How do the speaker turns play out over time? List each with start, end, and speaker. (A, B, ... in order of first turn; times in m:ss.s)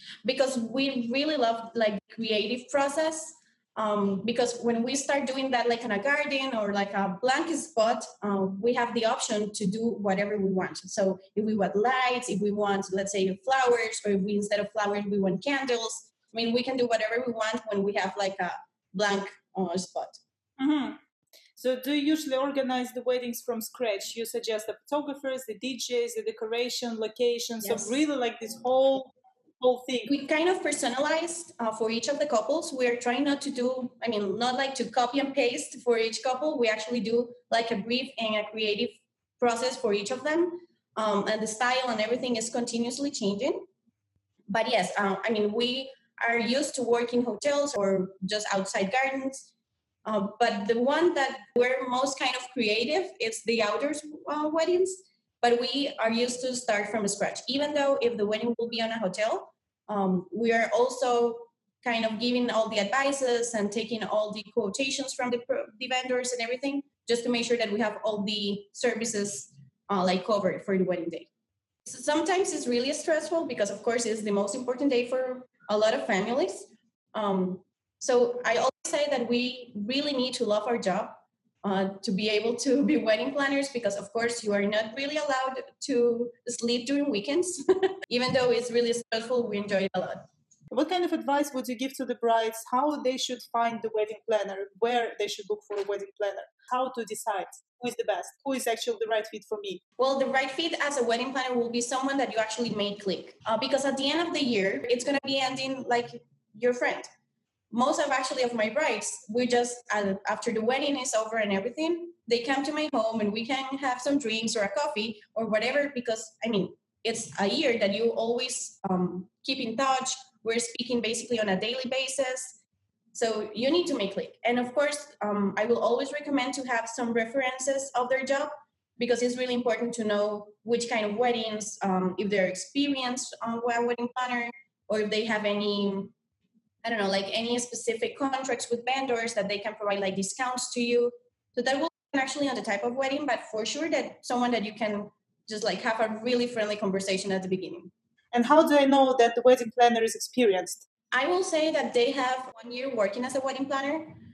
0:00.2-0:20.2 A
0:20.6-0:21.0 B
0:21.6-0:30.1 B
0:27.6-0:28.0 A
0:30.0-0:43.6 A
0:44.5-0:49.5 A
0:50.0-1:11.3 A
1:11.8-1:30.2 A
1:30.7-1:39.8 B
1:40.0-1:47.1 A
1:47.7-2:02.6 A
2:03.1-2:16.1 A
2:16.8-2:27.9 A
2:28.3-2:30.8 B
2:31.1-2:34.2 A